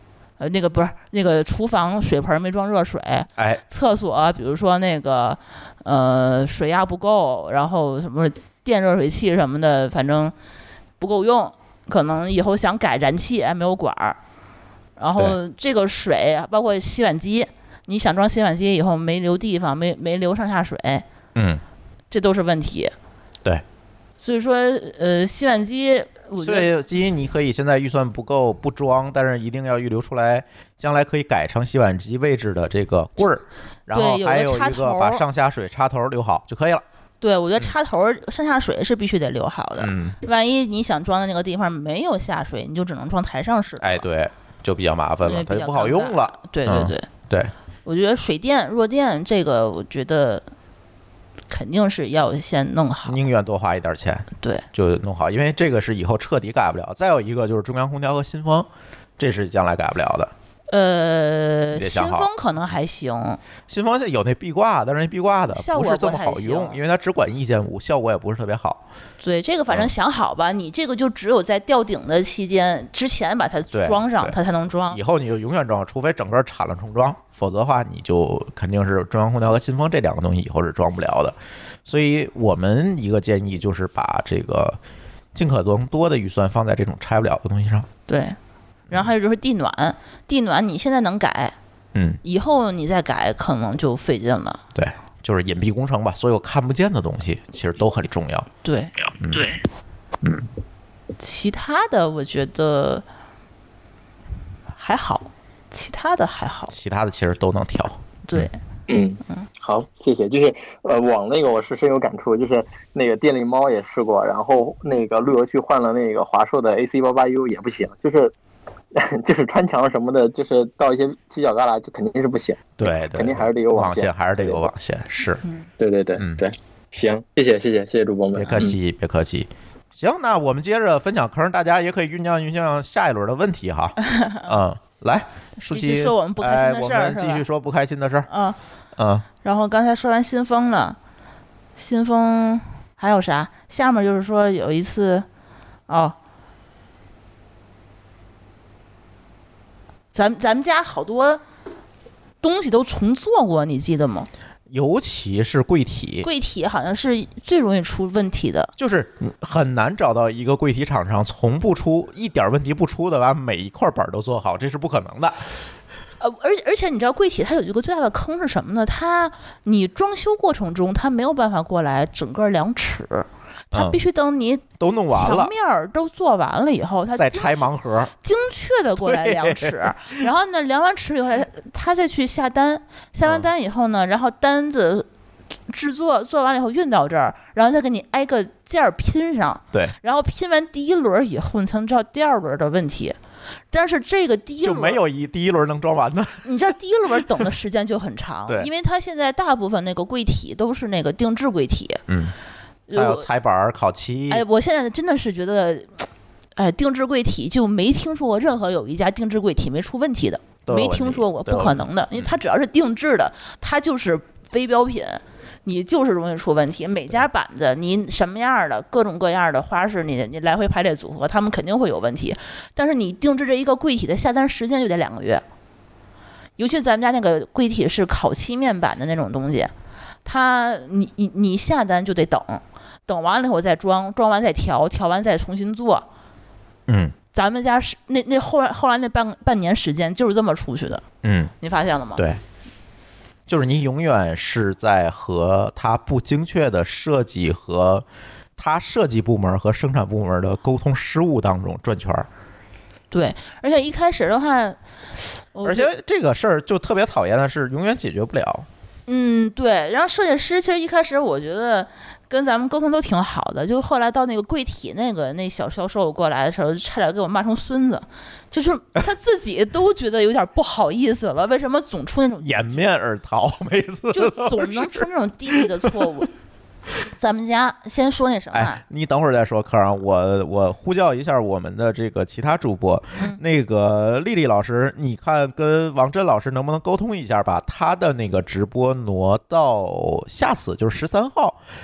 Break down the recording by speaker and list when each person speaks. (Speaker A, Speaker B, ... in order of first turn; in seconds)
Speaker A: 0.4-10.3, 11.0-14.2, 15.0-21.0, 22.1-22.9, 24.2-26.7, 33.9-35.2, 37.2-44.0, 45.2-47.1, 47.9-50.4, 51.5-53.2, 60.7-63.4, 65.5-66.8, 69.2-75.0, 88.1-88.3, 88.9-91.5, 92.2-94.6, 98.6-99.6, 101.2-103.0, 104.7-106.7, 108.2-108.5, 134.0-134.5, 135.7-137.4, 138.3-138.6, 139.4-141.0, 141.8-145.2, 145.9-146.2, 150.1-151.4, 152.4-154.3, 156.2-158.7, 166.2-177.7, 178.2-185.1, 185.7-193.2, 193.7-195.0, 196.4-202.0, 202.9-203.3, 204.3-225.4, 226.6-229.7, 230.2-236.1, 237.3-241.0, 241.6-242.2, 253.1-255.9, 259.1-272.8, 274.1-276.3, 277.1-278.8
Speaker B: 3.4-3.6, 21.3-21.6, 26.4-36.8, 39.8-40.2, 43.8-47.5, 53.0-60.3, 61.7-62.3, 63.7-68.8, 73.7-74.4, 74.9-84.8, 85.3-87.9, 91.9-92.2, 94.7-98.5, 106.7-108.5, 122.8-125.4, 126.2-126.4, 128.3-138.3, 138.9-139.2, 154.7-156.3, 158.8-165.5, 173.7-174.0, 174.8-175.5, 177.1-178.1, 179.0-180.2, 194.6-196.4, 202.1-202.3, 202.9-204.4, 210.7-212.3, 236.9-237.1, 241.2-241.5, 243.5-248.0, 248.6-252.3, 255.6-258.7, 272.4-275.0, 275.6-276.0, 278.5-291.6
Speaker C: 108.9-118.3, 118.9-124.7, 125.8-128.7